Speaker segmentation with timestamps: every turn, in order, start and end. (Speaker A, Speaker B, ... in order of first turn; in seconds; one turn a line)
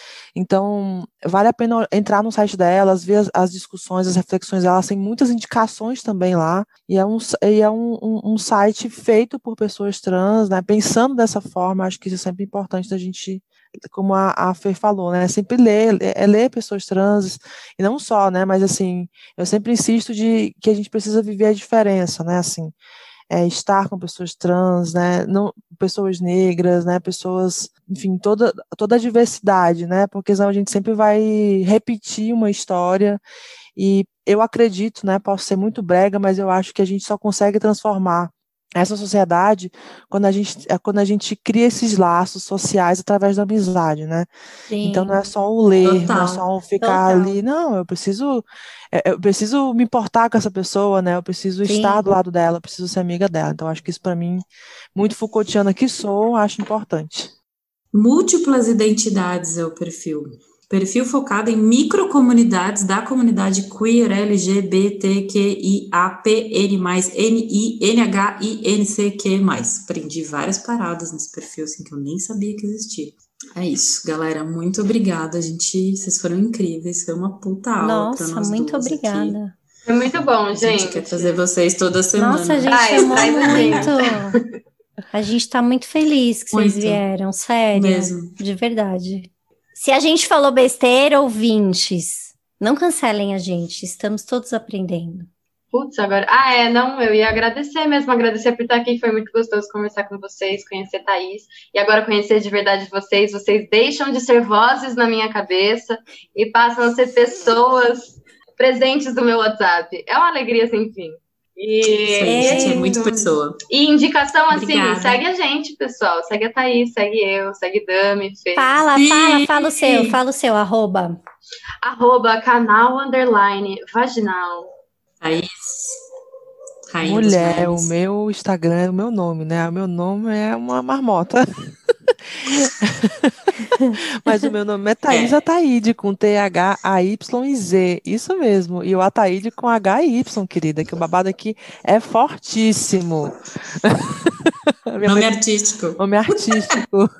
Speaker A: 0.3-22.7
Speaker A: 23.3-33.2
Speaker A: 33.8-44.3
Speaker B: 44.7-45.1
Speaker A: 44.8-57.3
Speaker C: 45.8-46.4
Speaker B: 46.8-47.4
Speaker B: 51.6-52.0
Speaker C: 57.9-79.4
Speaker B: 77.8-79.5
Speaker D: 79.8-81.4
Speaker C: 80.5-83.9
Speaker B: 82.2-84.4
Speaker D: 82.7-84.4
Speaker B: 85.1-95.3
Speaker C: 86.5-87.0
Speaker C: 87.7-88.3
Speaker D: 95.7-118.7
Speaker C: 112.0-113.5
Speaker B: 112.2-113.0
Speaker C: 114.5-115.2
Speaker B: 118.5-121.2
Speaker C: 118.9-120.1
Speaker D: 121.8-124.7
Speaker C: 125.2-126.0
Speaker C: 126.9-127.9
Speaker A: 127.0-145.3
Speaker C: 135.1-135.4
Speaker C: 145.0-146.6
Speaker A: 146.0-147.1